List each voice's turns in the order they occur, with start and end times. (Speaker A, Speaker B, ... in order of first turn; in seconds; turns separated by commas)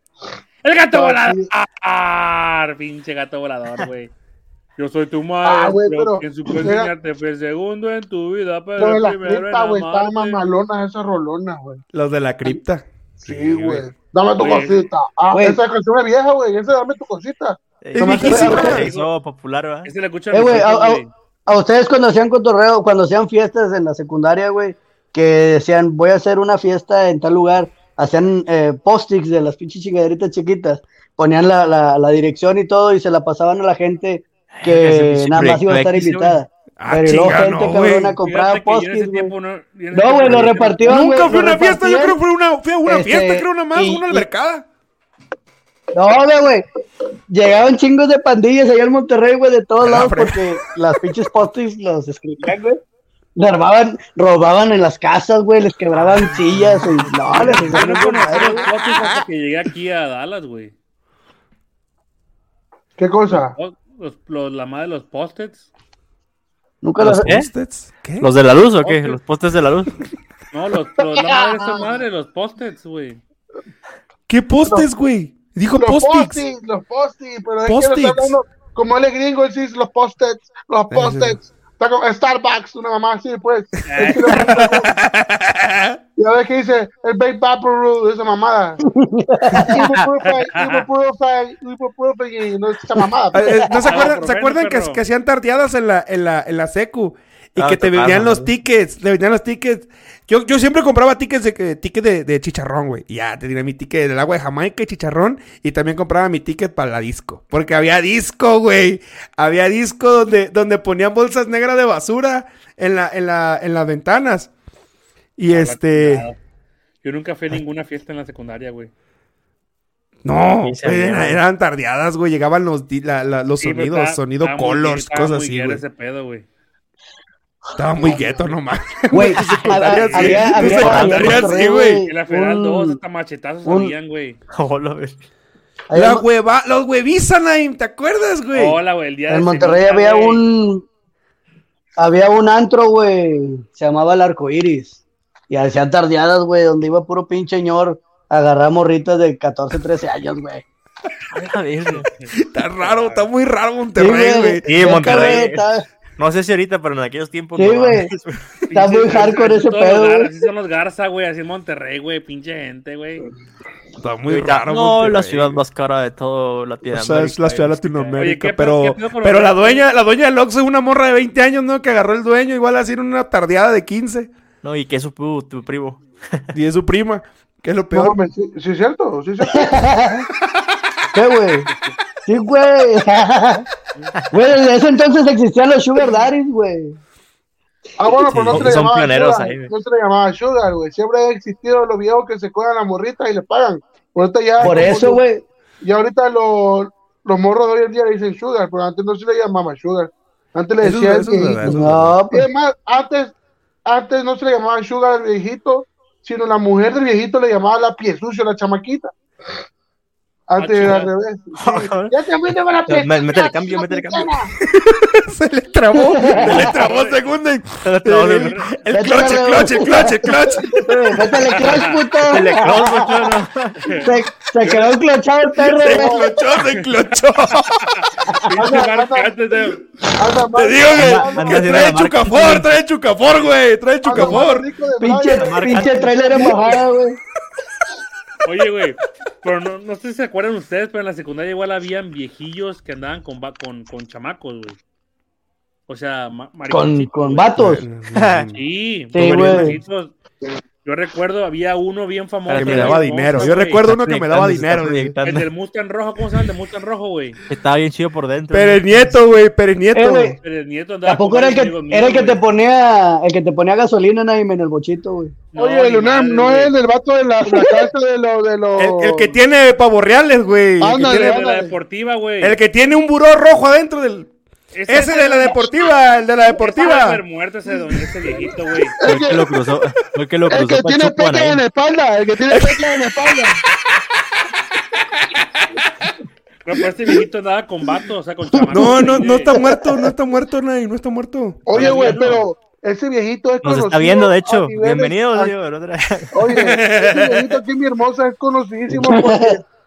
Speaker A: 0.6-4.1, Speaker B: 0.9-1.5, Speaker A: 4.8-10.4, Speaker B: 5.4-6.9, Speaker B: 8.8-11.8, Speaker C: 11.9-13.9, Speaker B: 13.2-18.9, Speaker A: 14.4-14.9, Speaker D: 15.3-15.6, Speaker E: 17.8-19.9, Speaker C: 18.0-18.9, Speaker A: 18.6-19.1, Speaker A: 19.9-21.1, Speaker D: 20.3-39.3, Speaker E: 34.5-36.4, Speaker C: 36.8-38.2, Speaker A: 38.2-41.1, Speaker D: 39.9-42.2, Speaker C: 40.8-44.6, Speaker D: 42.9-44.3, Speaker D: 45.9-46.6, Speaker D: 47.3-52.8, Speaker C: 49.8-50.5, Speaker D: 53.4-58.7, Speaker A: 57.4-60.7, Speaker C: 58.3-59.2, Speaker B: 63.0-63.6, Speaker A: 63.3-65.7, Speaker D: 66.8-67.3, Speaker E: 67.0-67.5, Speaker C: 67.1-68.3, Speaker E: 68.2-70.0, Speaker A: 68.8-69.2, Speaker A: 70.5-73.2, Speaker B: 71.2-71.8, Speaker C: 74.3-76.4, Speaker B: 75.8-85.0, Speaker C: 77.7-78.4, Speaker C: 80.9-81.4, Speaker A: 83.9-84.7, Speaker C: 84.3-86.0, Speaker B: 86.2-88.8, Speaker D: 88.9-89.7, Speaker B: 89.6-93.5, Speaker A: 90.3-90.8, Speaker C: 93.3-114.5, Speaker D: 93.4-93.9, Speaker A: 93.9-95.0, Speaker E: 97.6-98.5, Speaker C: 115.4-116.3, Speaker A: 115.5-116.4, Speaker A: 117.0-118.9, Speaker C: 120.2-125.8, Speaker E: 120.6-121.4, Speaker A: 123.6-126.5, Speaker C: 127.8-132.1, Speaker B: 128.1-128.4, Speaker D: 129.1-133.0, Speaker E: 129.4-131.3, Speaker A: 130.1-131.5, Speaker A: 132.1-134.4, Speaker D: 133.7-133.9, Speaker E: 134.5-135.2, Speaker D: 135.9-136.3, Speaker C: 135.9-138.8, Speaker A: 138.5-140.4, Speaker D: 139.3-140.9, Speaker D: 142.0-150.6, Speaker E: 151.3-152.1, Speaker A: 151.9-153.3, Speaker C: 152.4-155.4, Speaker D: 154.0-155.9, Speaker E: 154.7-158.7, Speaker D: 157.6-158.1, Speaker A: 158.7-163.2, Speaker D: 158.7-160.3, Speaker C: 164.0-165.6, Speaker E: 164.3-168.1, Speaker C: 166.9-174.3, Speaker A: 168.2-169.8, Speaker E: 174.6-176.5, Speaker C: 176.5-178.2, Speaker B: 178.0-179.9, Speaker D: 179.5-180.2, Speaker D: 181.1-181.7, Speaker D: 182.2-183.7, Speaker D: 184.3-187.0, Speaker B: 188.0-195.2, Speaker E: 188.2-189.7, Speaker D: 194.6-195.4, Speaker B: 195.8-201.8, Speaker C: 200.8-202.2, Speaker D: 201.7-202.5, Speaker B: 202.3-209.1, Speaker B: 210.5-214.5, Speaker A: 210.6-211.1, Speaker E: 211.6-212.1, Speaker E: 212.9-214.3, Speaker C: 214.6-220.9, Speaker D: 215.9-216.4, Speaker A: 216.4-217.2, Speaker E: 217.8-219.1, Speaker A: 218.3-218.7, Speaker D: 218.9-223.2, Speaker A: 221.5-222.0, Speaker E: 222.3-224.0, Speaker A: 223.9-224.1, Speaker D: 223.9-226.2, Speaker C: 225.6-227.9, Speaker A: 227.9-229.8, Speaker B: 228.5-229.3, Speaker B: 230.2-231.8, Speaker C: 230.6-234.7, Speaker E: 230.9-232.8, Speaker B: 234.0-236.8, Speaker D: 235.0-237.2, Speaker E: 235.3-236.0, Speaker A: 238.4-244.8, Speaker A: 245.9-247.6, Speaker D: 246.7-247.8, Speaker C: 247.6-248.6, Speaker E: 248.2-248.5, Speaker A: 248.6-250.2, Speaker D: 249.1-249.8, Speaker E: 249.2-249.7, Speaker A: 250.8-253.8, Speaker E: 252.5-255.5, Speaker C: 252.6-255.2, Speaker A: 255.2-257.4, Speaker E: 257.5-259.1, Speaker C: 258.5-260.4, Speaker D: 259.9-260.4, Speaker A: 260.4-262.4, Speaker D: 261.1-265.3, Speaker A: 265.5-266.8, Speaker B: 265.6-269.3, Speaker C: 268.8-271.4, Speaker B: 270.8-271.8, Speaker A: 270.9-272.6, Speaker C: 272.4-274.3, Speaker A: 274.7-275.7, Speaker C: 274.9-277.2, Speaker A: 276.6-279.0, Speaker B: 279.0-279.6, Speaker E: 279.0-281.6, Speaker B: 280.5-283.6, Speaker C: 282.5-282.8, Speaker A: 286.6-289.5, Speaker C: 288.7-292.3, Speaker B: 291.7-295.6, Speaker A: 291.7-292.4, Speaker E: 293.6-296.5, Speaker B: 296.3-299.6, Speaker C: 296.5-297.6, Speaker D: 298.9-299.6